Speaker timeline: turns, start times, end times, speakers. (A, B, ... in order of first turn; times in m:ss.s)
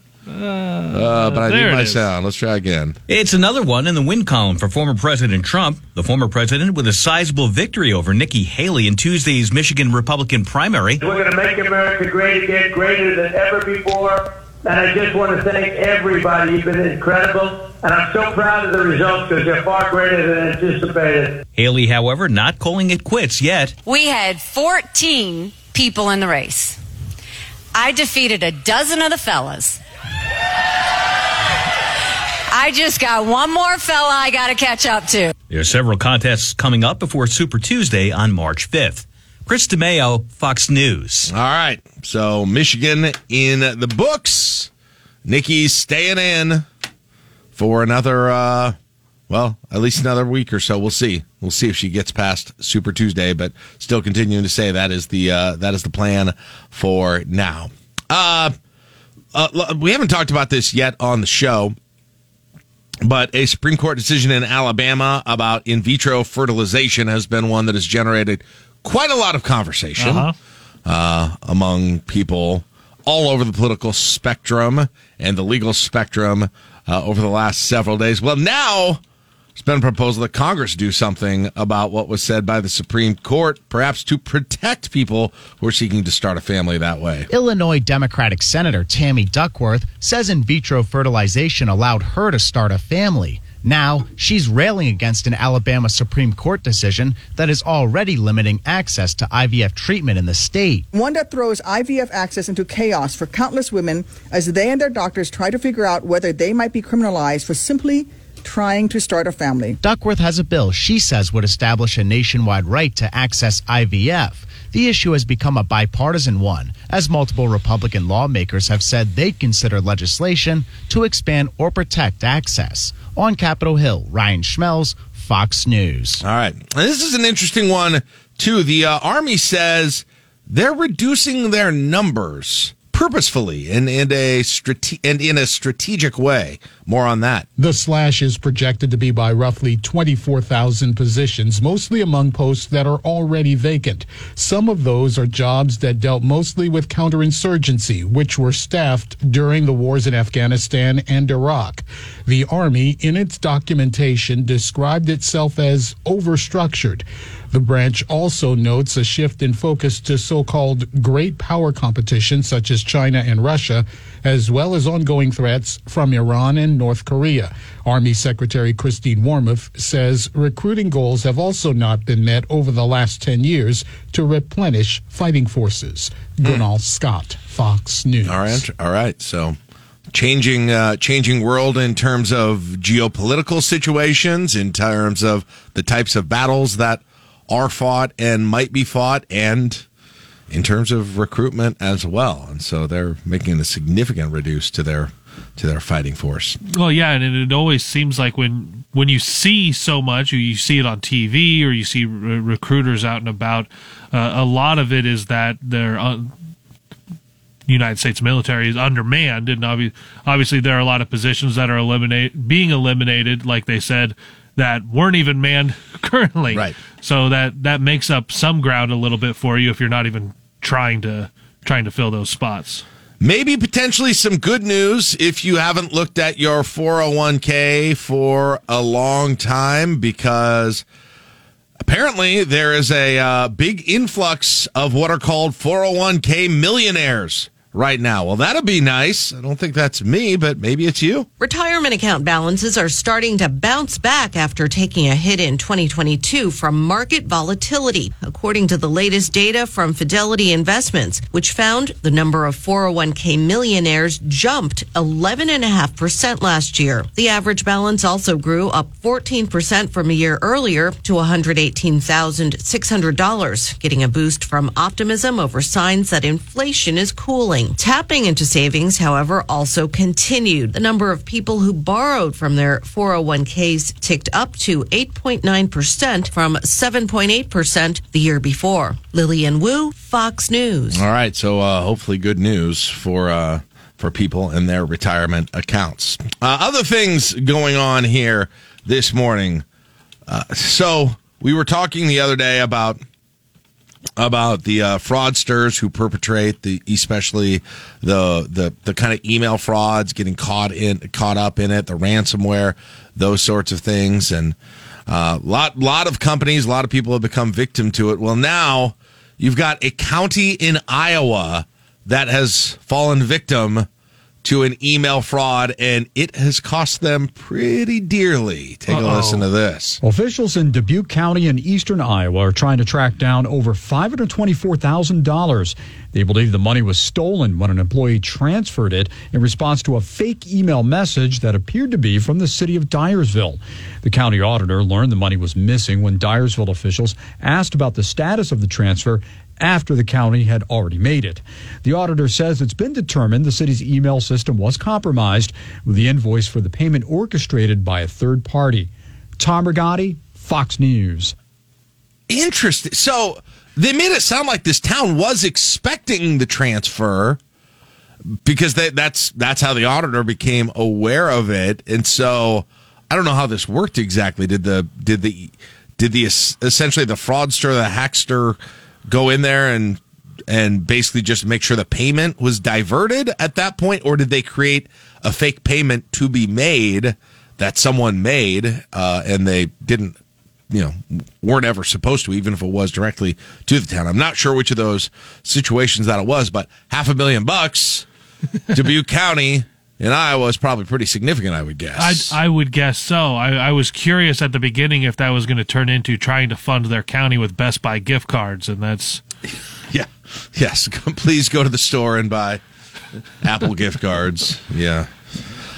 0:00.3-0:02.0 A
0:00.9-0:03.0 B
0:03.1-0:11.0 C
0:11.1-0:14.0 D
0:14.7-0:21.2 D
0:21.6-0:23.8 C
0:23.8-0:26.8 E
0:27.7-0:29.8 E
0:32.5-0:35.3 E
0:35.5-0:41.3 C
0:41.3-0:44.7 B
0:45.2-0:46.6 B
0:47.6-0:48.7 B
0:49.3-0:58.5 B
0:59.3-1:01.8 B
1:03.0-1:10.3 B
1:10.0-1:10.3 A
1:10.8-1:19.0 B
1:19.6-1:27.3 B
1:27.3-1:40.9 F
1:40.9-1:49.8 G
1:49.8-2:06.2 F
2:06.2-2:17.5 B
2:17.6-2:58.6 H
2:58.2-2:59.6 B
3:00.1-3:09.8 B
3:10.5-3:16.6 B
3:16.7-3:26.3 A
3:27.7-3:42.8 A
3:43.2-3:50.8 B
3:51.8-4:01.3 B
4:01.4-4:41.0 I
4:40.9-4:49.6 B
4:50.3-4:53.0 B
4:54.2-5:04.6 B
5:05.1-5:13.9 B
5:14.4-5:20.0 B
5:18.9-5:19.4 A
5:20.0-5:51.3 J
5:52.3-5:57.4 B
5:58.4-6:20.2 B
6:20.7-6:28.0 B
6:28.7-6:32.4 B
6:32.0-6:39.2 A
6:39.9-6:42.6 B
6:43.4-6:45.1 B